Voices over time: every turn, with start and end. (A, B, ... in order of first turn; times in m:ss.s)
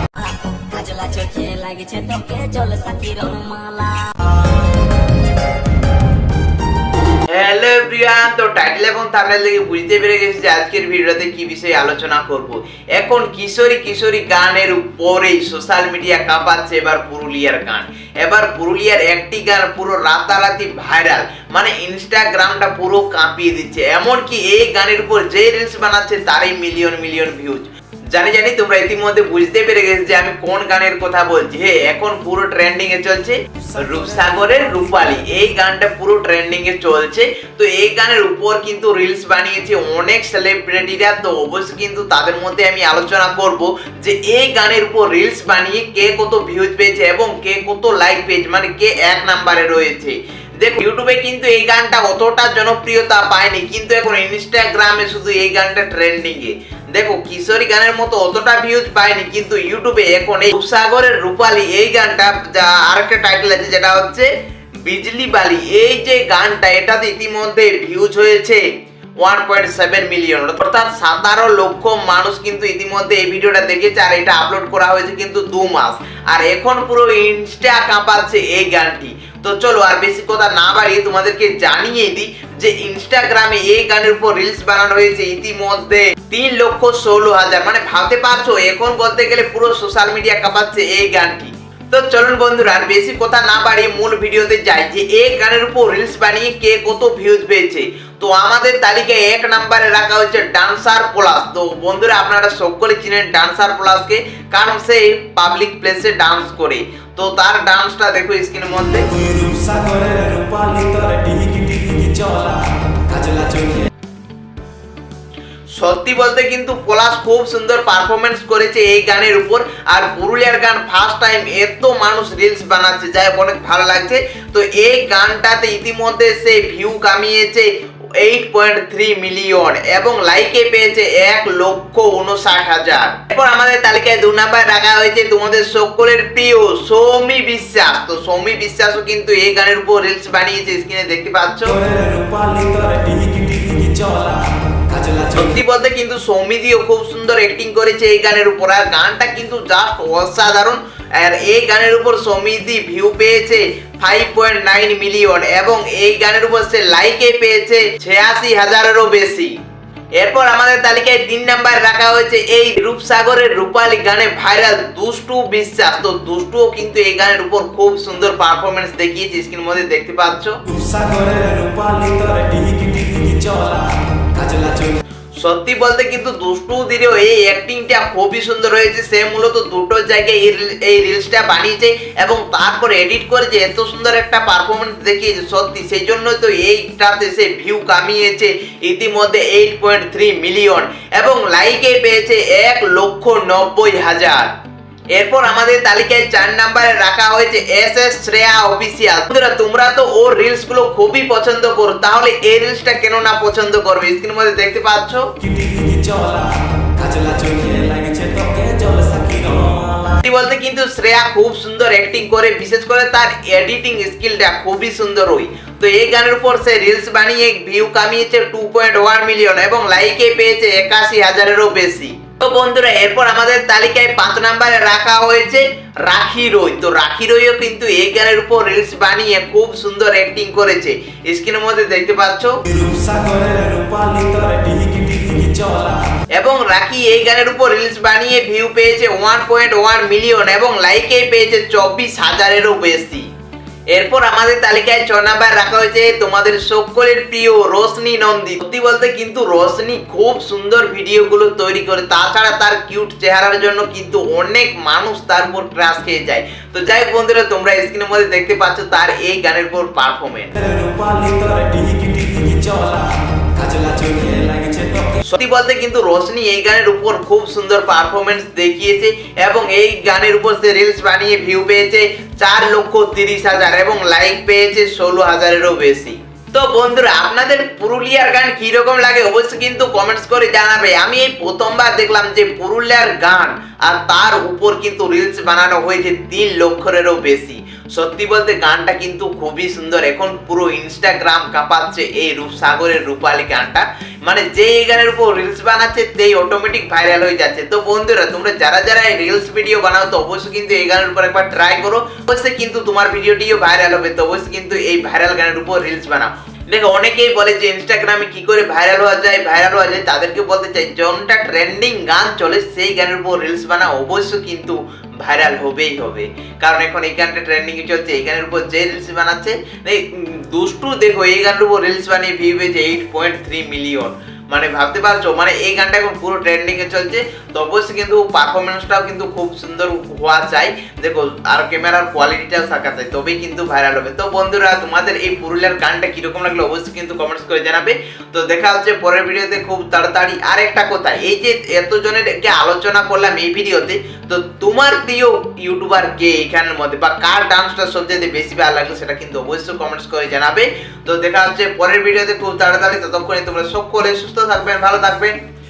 0:00.2-0:04.1 A
0:07.3-1:04.3 B
0:33.6-0:35.4 C
1:04.8-1:08.6 B
1:09.2-1:49.1 B
1:49.1-1:53.9 C
1:55.8-2:21.8 B
2:21.6-2:25.6 C
2:25.4-2:39.5 B
2:40.2-2:50.6 B
2:50.7-2:55.0 C
2:55.4-3:14.5 B
3:15.1-3:25.2 B
3:25.4-3:30.2 C
3:30.2-3:52.5 B
3:52.7-3:56.0 C
3:56.3-4:03.3 B
4:03.9-4:20.5 B
4:20.5-4:25.2 C
4:25.2-5:55.4 B